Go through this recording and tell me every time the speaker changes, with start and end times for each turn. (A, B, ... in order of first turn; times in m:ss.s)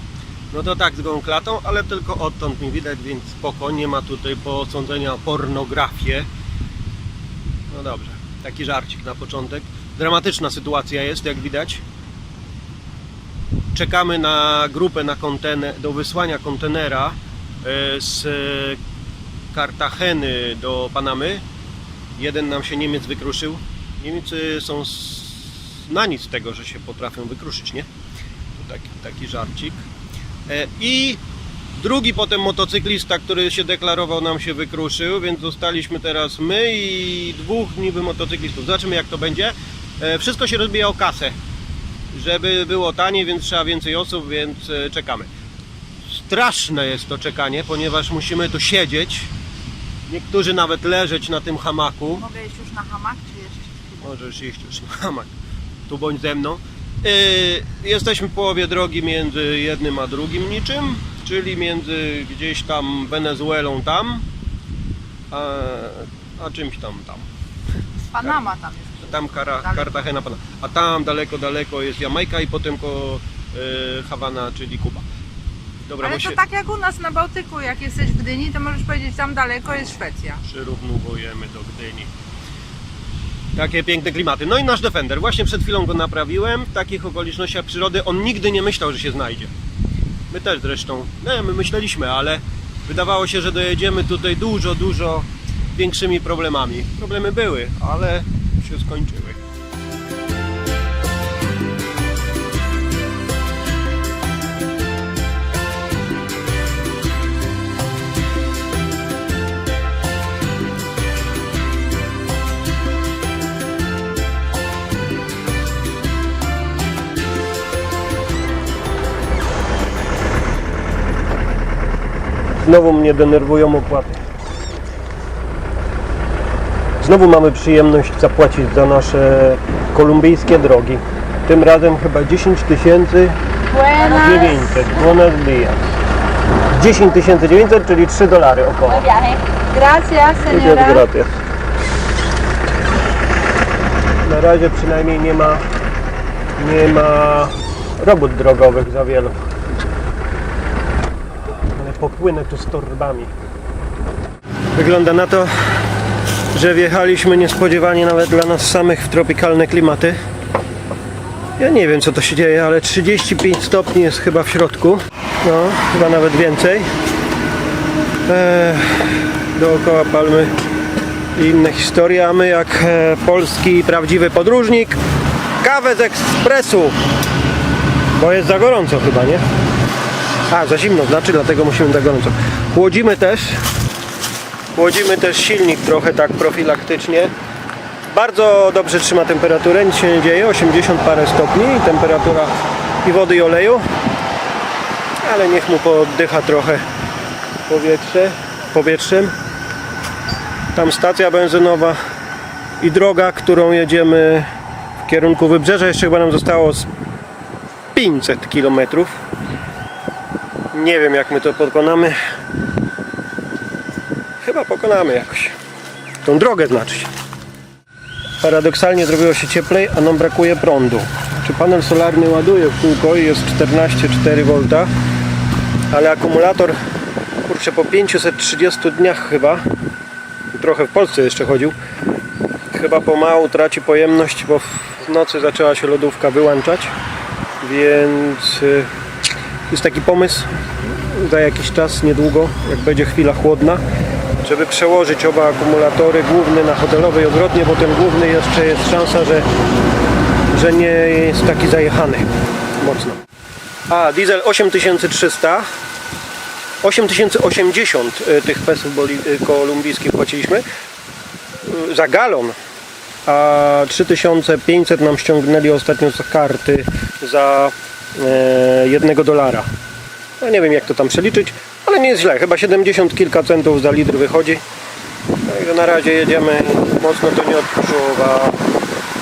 0:00.5-0:06.3 A
0:07.7-0:11.8 A
0:13.7-0:18.8 A
0:19.5-0:21.4 A
0:22.2-0:27.9 A
0:28.6-0:29.8 A
0:30.5-0:31.2 A
0:31.8-0:41.4 A
0:42.1-0:45.3 A
0:46.1-0:49.3 A
0:50.1-0:52.3 A
0:52.2-0:54.0 B
0:54.0-0:55.3 A
0:55.9-1:04.2 A
1:05.3-1:07.3 A
1:08.1-1:09.9 B
1:09.0-1:15.0 A
1:15.9-1:16.4 A
1:16.0-1:20.4 B
1:20.4-1:22.1 A
1:23.5-1:29.5 A
1:30.3-1:39.4 A
2:02.6-2:04.2 A
2:07.0-2:13.4 A
2:13.7-2:14.8 B
2:14.1-2:15.9 A
2:16.7-2:19.1 A
2:19.2-2:21.0 B
2:20.5-2:21.4 A
2:24.2-2:25.6 A
2:26.6-2:29.4 A
2:31.7-2:33.3 A
2:34.8-2:35.5 A
2:36.5-2:40.2 A
2:41.6-2:46.9 A
2:48.3-2:50.5 A
2:51.4-2:55.0 A
2:55.6-2:57.0 A
2:58.1-2:59.4 A
3:00.5-3:03.6 A
3:04.7-3:07.3 A
3:08.1-3:13.8 A
3:15.2-3:16.8 A
3:17.7-3:19.3 A
3:20.7-3:22.0 A
3:22.8-3:24.5 A
3:25.0-3:26.9 A
3:27.9-3:29.2 A
3:30.7-3:32.2 A
3:34.4-3:35.6 A
3:36.2-3:37.1 A
3:38.4-3:44.9 A
3:45.9-3:46.8 A
3:47.4-3:49.6 A
3:50.5-3:51.8 A
3:52.7-3:56.9 A
3:57.6-3:58.9 A
3:59.7-4:03.8 A
4:04.4-4:09.5 A
4:10.5-4:13.2 A
4:13.9-4:15.7 A
4:16.8-4:20.6 A
4:21.6-4:22.6 A
4:23.3-4:29.7 A
4:30.4-4:34.6 A
4:35.5-4:38.6 A